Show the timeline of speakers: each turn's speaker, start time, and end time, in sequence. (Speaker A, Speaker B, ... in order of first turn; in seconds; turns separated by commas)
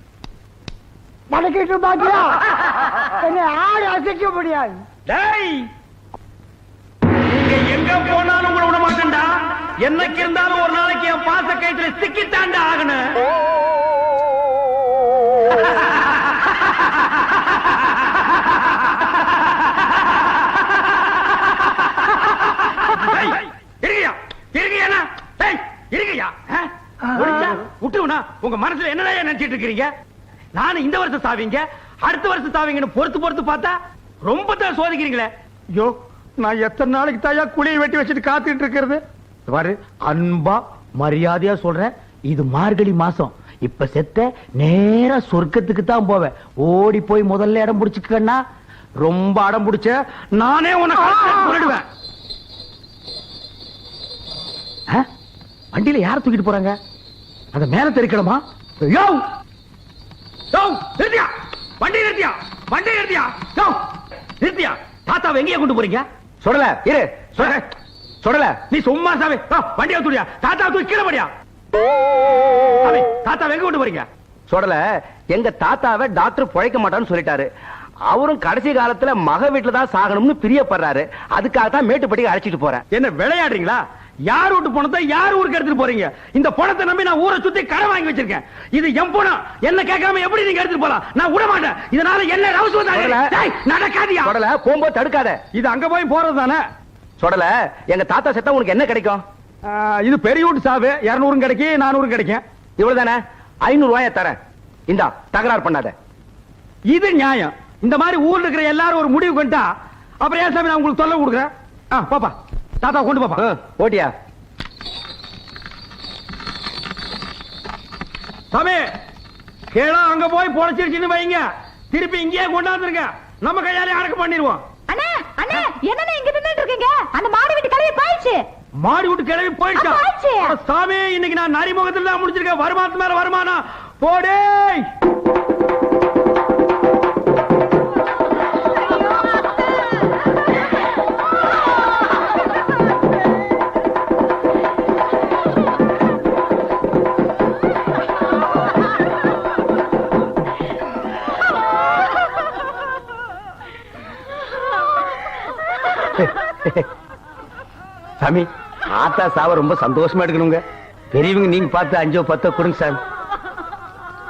Speaker A: 1.3-2.3, Speaker A: 3.2-4.8, Speaker B: 5.1-5.7, Speaker B: 7.3-13.2, Speaker B: 22.8-29.9, Speaker B: 30.5-48.4, Speaker B: 49.0-51.8, Speaker B: 55.7-56.8, Speaker B: 57.5-59.2, Speaker B: 60.5-63.8, Speaker B: 64.4-66.0, Speaker C: 66.4-67.5, Speaker C: 68.2-68.6, Speaker B: 68.7-71.3, Speaker B: 72.8-74.1, Speaker C: 74.5-77.5, Speaker C: 78.1-82.8, Speaker B: 82.9-94.3, Speaker C: 92.9-93.3, Speaker C: 94.2-95.4, Speaker B: 95.5-96.6, Speaker C: 97.2-99.2, Speaker B: 99.6-102.4, Speaker C: 102.8-104.4, Speaker C: 104.9-105.9, Speaker B: 106.9-109.7, Speaker B: 110.2-113.4, Speaker C: 113.4-114.1, Speaker B: 118.5-118.9, Speaker B: 119.7-124.6, Speaker D: 124.9-128.4, Speaker B: 128.8-134.8, Speaker D: 129.7-130.5, Speaker B: 158.2-158.5, Speaker C: 158.9-160.3, Speaker B: 160.3-160.6, Speaker B: 161.1-163.0